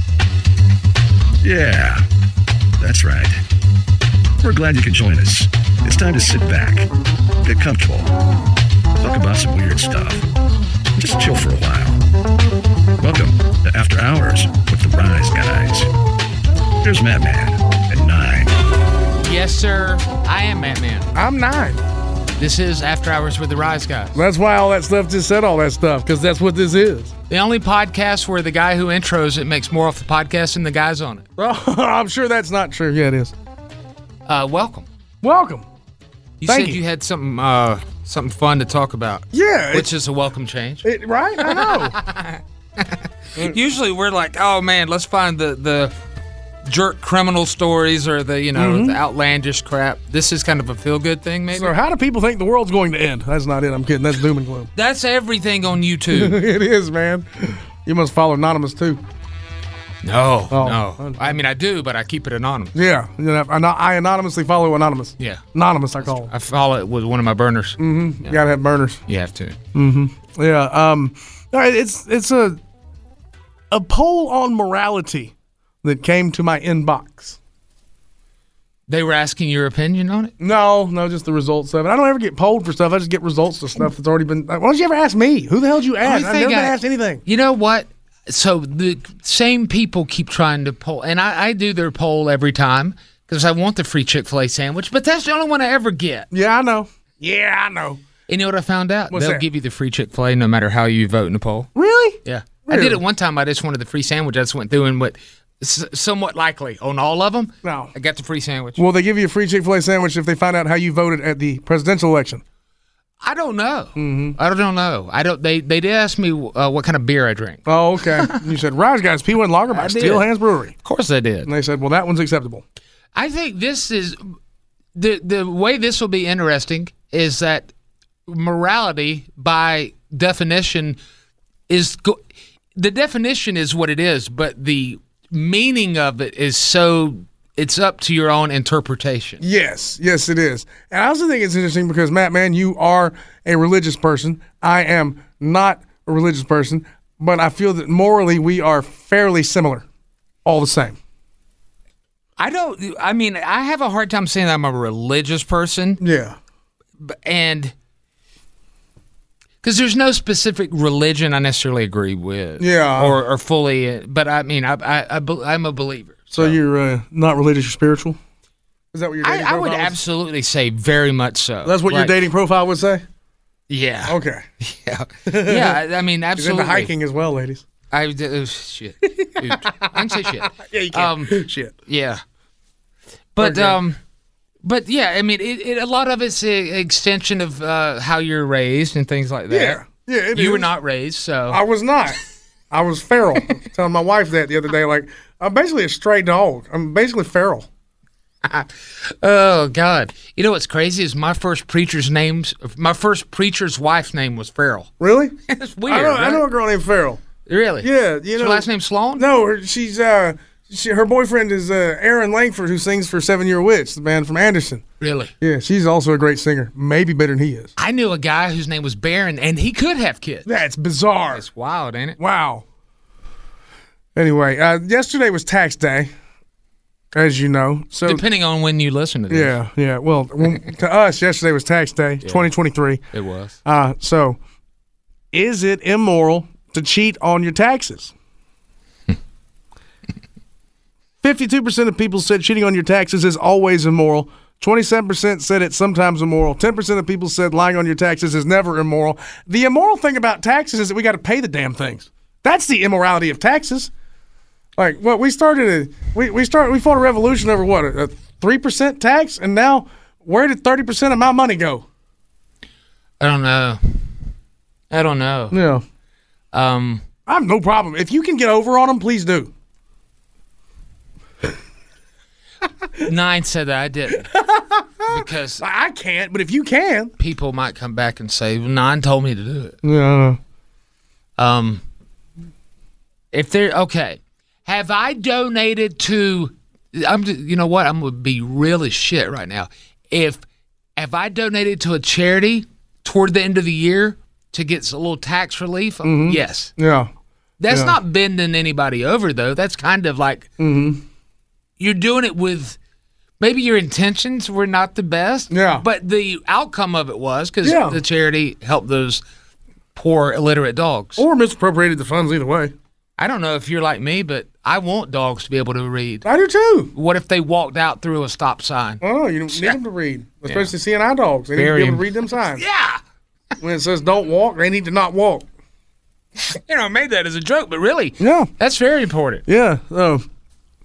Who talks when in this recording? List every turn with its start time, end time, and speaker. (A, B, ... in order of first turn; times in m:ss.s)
0:01.4-0:02.0 A
0:02.8-0:03.4 A
0:04.4-0:06.9 A
0:07.4-0:08.1 A
0:09.0-0:10.2 A
0:11.0-0:12.0 A
0:13.0-0:15.9 A
0:16.8-0:18.6 A
0:19.2-0:21.1 B
0:21.2-0:21.8 C
0:22.4-0:24.2 B
0:24.2-0:27.1 C
0:27.3-0:31.3 B
0:31.4-0:33.4 C
0:34.3-0:34.9 B
0:35.2-0:35.7 C
0:36.4-0:40.9 B
0:36.4-0:36.8 C
0:39.3-0:39.9 C
0:40.8-0:42.0 C
0:41.4-0:45.9 B
0:46.6-0:51.7 B
0:48.6-0:49.0 C
0:51.5-0:54.7 C
0:54.8-0:56.4 B
0:56.1-0:59.0 C
1:00.0-1:02.8 B
1:00.5-1:01.4 C
1:02.8-1:06.3 C
1:06.0-1:08.4 B
1:07.8-1:09.0 C
1:09.1-1:09.6 B
1:09.7-1:12.6 C
1:13.7-1:17.4 C
1:18.9-1:20.3 B
1:20.4-1:27.2 C
1:26.0-1:36.3 B
1:36.3-1:38.0 C
1:38.3-1:41.7 B
1:39.1-1:39.4 C
1:41.8-1:43.0 C
1:42.2-1:48.8 B
1:47.6-1:47.9 C
1:48.8-1:52.4 C
1:53.2-1:58.4 B
1:54.0-1:54.4 C
1:57.7-2:00.7 C
1:59.7-2:00.3 B
2:00.8-2:01.5 B
2:01.5-2:02.6 C
2:03.2-2:04.4 B
2:05.0-2:07.7 B
2:08.3-2:11.0 B
2:11.7-2:12.2 B
2:12.8-2:19.4 B
2:19.4-2:29.8 C
2:30.4-2:31.0 C
2:32.4-2:36.0 B
2:36.0-2:36.4 C
2:37.0-2:37.7 B
2:39.6-2:46.6 B
2:42.6-2:43.2 C
2:46.3-2:48.2 C
2:48.9-2:50.0 C
2:49.2-2:52.2 B
2:51.6-2:53.0 C
2:53.7-2:56.9 B
2:54.1-2:54.4 C
2:55.3-2:55.8 C
2:56.4-2:57.6 C
2:57.9-3:02.2 B
2:59.0-3:01.7 C
3:03.4-3:04.0 B
3:03.4-3:03.8 C
3:04.6-3:09.8 B
3:09.5-3:10.7 C
3:10.3-3:11.6 B
3:11.5-3:12.2 C
3:12.7-3:17.7 C
3:18.4-3:24.9 B
3:25.0-3:25.4 C
3:25.5-3:26.5 B
3:25.9-3:27.2 C
3:27.5-3:29.3 B
3:27.8-3:34.8 C
3:35.0-3:35.3 B
3:35.4-3:37.7 C
3:37.8-3:40.5 B
3:40.5-3:41.4 C
3:41.3-3:42.2 B
3:42.2-3:42.6 C
3:44.2-3:46.1 C
3:47.1-3:48.2 C
3:48.0-3:49.6 B
3:49.3-3:53.0 C
3:52.2-3:52.5 B
3:53.1-3:53.6 B
3:53.6-3:54.4 C
3:55.3-3:58.1 C
4:01.2-4:13.9 C
4:14.8-4:21.9 C
4:23.2-4:24.1 B
4:24.9-4:25.6 B
4:25.5-4:25.8 C
4:26.5-4:27.0 B
4:27.3-4:29.5 C
4:33.0-4:34.3 B
4:34.3-4:37.1 C
4:35.1-4:35.6 B
4:37.2-4:39.8 B
4:39.8-4:40.4 C
4:41.4-4:41.8 B
4:43.3-4:50.4 B
4:51.0-4:56.7 B
4:56.0-4:57.1 C
4:57.6-5:00.5 B
4:57.7-4:58.0 C
5:00.6-5:01.0 C
5:01.8-5:02.8 B
5:03.4-5:09.2 B
5:05.5-5:05.9 C
5:07.6-5:08.0 C
5:10.0-5:11.2 B
5:11.2-5:12.7 C
5:13.2-5:16.2 B
5:16.2-5:16.9 C
5:16.9-5:19.8 B
5:19.0-5:22.6 C
5:21.6-5:23.0 B
5:23.6-5:25.5 C
5:26.4-5:29.4 B
5:28.2-5:28.5 C
5:29.5-5:30.2 C